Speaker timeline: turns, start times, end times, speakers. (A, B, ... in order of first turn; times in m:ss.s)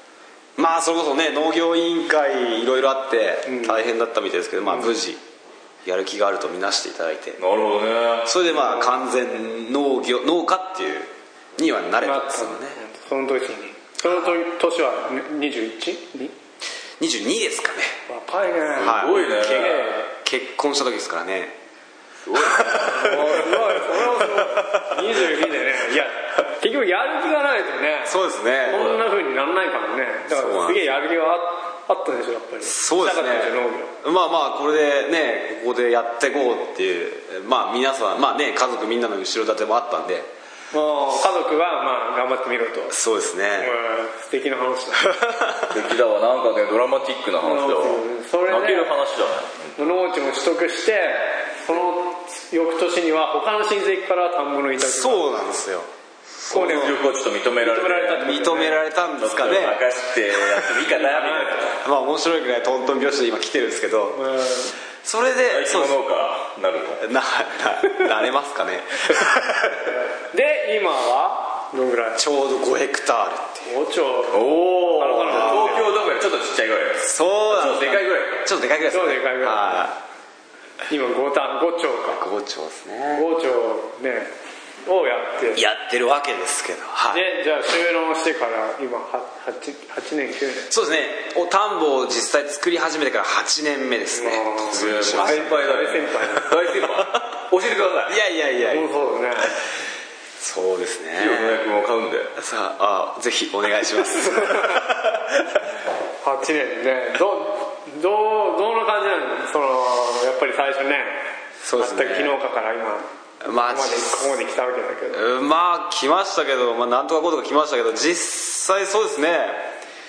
0:00.6-0:05.2 A
0:03.4-0:03.8 B
0:05.8-0:07.4 A
0:07.4-0:08.4 C
0:08.2-0:12.8 A
0:12.0-0:16.3 B
0:17.0-0:18.0 A
0:18.1-0:20.1 B
0:18.8-0:19.8 C
0:18.8-0:21.6 A
0:22.2-0:23.4 C
0:22.4-0:25.1 A
0:22.9-0:33.9 B
0:28.0-0:28.9 A
0:28.7-0:29.0 C
0:30.3-0:30.8 A
0:32.6-0:40.3 A
0:40.7-0:43.0 B
0:42.9-0:43.7 A
0:43.6-0:45.3 B
0:45.0-0:45.8 A
0:45.7-0:49.8 C
0:47.4-0:48.9 B
0:49.8-0:55.4 B
0:54.8-0:55.9 A
0:56.4-0:56.9 A
0:56.5-0:57.0 B
0:56.5-0:58.5 C
0:57.6-0:58.8 B
0:58.2-0:59.8 A
0:59.2-1:01.8 C
1:00.3-1:00.8 A
1:00.9-1:01.6 B
1:01.8-1:04.2 A
1:04.1-1:04.7 B
1:05.0-1:06.0 A
1:05.4-1:07.0 C
1:07.0-1:09.9 A
1:10.3-1:12.2 B
1:12.2-1:13.7 A
1:13.6-1:15.9 B
1:14.3-1:18.5 C
1:15.3-1:15.8 A
1:17.0-1:20.0 A
1:18.9-1:19.8 B
1:20.9-1:22.2 B
1:22.1-1:23.3 A
1:23.1-1:24.3 B
1:24.8-1:25.6 B
1:25.5-1:27.2 A
1:27.1-1:30.7 B
1:30.7-1:35.5 A
1:34.1-1:36.6 B
1:34.6-1:38.2 C
1:38.1-1:38.9 A
1:38.6-1:39.5 B
1:40.4-1:41.6 A
1:41.2-1:42.3 C
1:42.4-1:45.4 A
1:44.2-1:44.9 B
1:46.2-1:51.2 B
1:51.6-1:52.4 A
1:51.8-1:53.1 B
1:53.4-1:54.3 A
1:53.6-1:55.2 B
1:55.1-1:59.7 A